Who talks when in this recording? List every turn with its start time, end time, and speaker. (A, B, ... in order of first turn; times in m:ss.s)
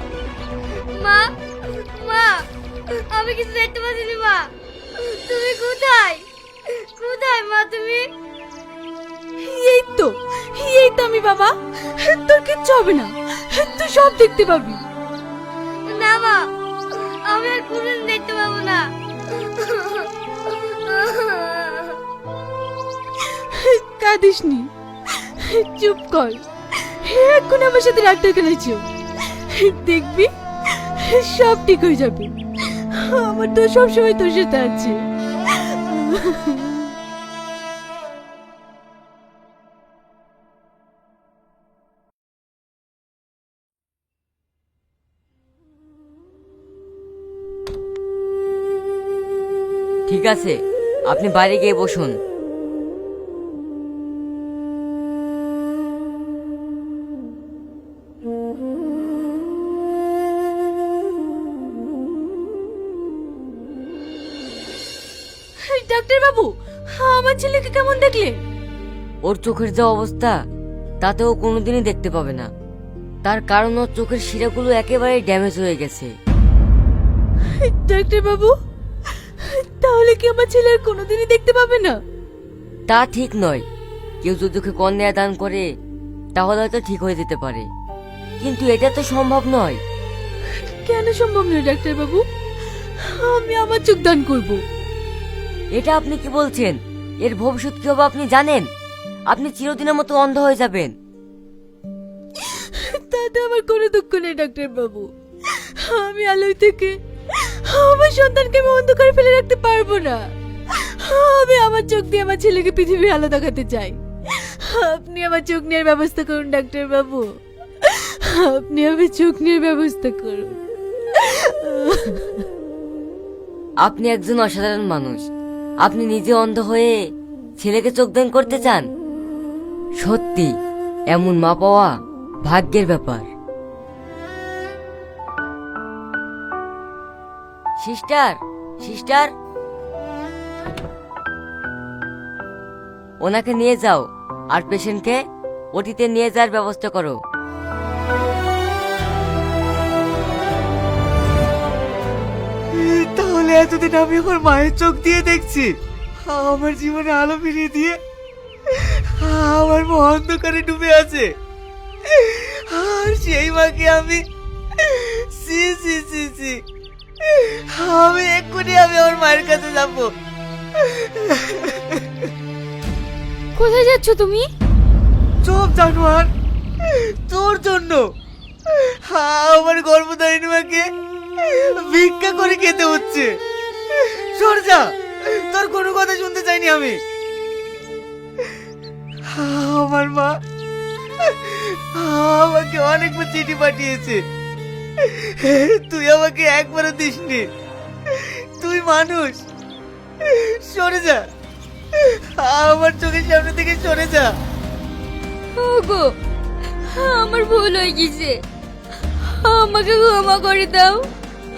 0:00.9-0:02.5 A
0:03.1-0:08.1 A
0:09.4-0:14.8 B
0:15.8-0:22.0 A
0:23.2-0:36.9 B
0:50.1-0:52.2 C
1:05.7-1:08.4 B
1:09.2-1:10.3 C
1:11.0-1:12.5 C
1:13.2-1:16.1 C
1:17.6-1:18.5 B
1:19.4-1:22.0 B
1:22.9-1:23.6 C
1:24.2-1:25.6 C
1:26.3-1:27.6 C
1:28.4-1:29.8 C
1:30.7-1:32.2 B
1:33.0-1:34.6 B
1:35.7-1:38.6 C
1:39.3-1:40.9 C
1:42.5-1:57.3 B
1:57.8-2:00.6 B
2:01.1-2:02.4 B
2:03.8-2:05.3 C
2:05.8-2:07.0 C
2:07.6-2:08.9 C
2:10.0-2:10.5 C
2:11.1-2:13.3 C
2:17.8-2:19.3 C
2:23.2-2:25.2 C
2:25.7-2:27.2 C
2:32.7-2:35.7 D
2:36.2-2:38.0 D
2:38.7-2:41.3 D
2:42.0-2:44.2 D
2:44.7-2:46.6 D
2:47.2-2:50.1 D
2:50.8-2:52.1 D
2:53.6-2:54.5 B
2:55.4-2:56.3 D
2:56.8-2:58.0 D
2:58.7-3:00.8 D
3:01.4-3:03.3 D
3:03.9-3:07.0 D
3:09.3-3:10.3 D
3:11.2-3:14.2 D
3:15.0-3:17.4 D
3:18.1-3:19.4 D
3:20.2-3:21.2 D
3:21.9-3:24.3 D
3:25.6-3:26.1 A
3:26.9-3:28.4 A
3:29.3-3:31.1 A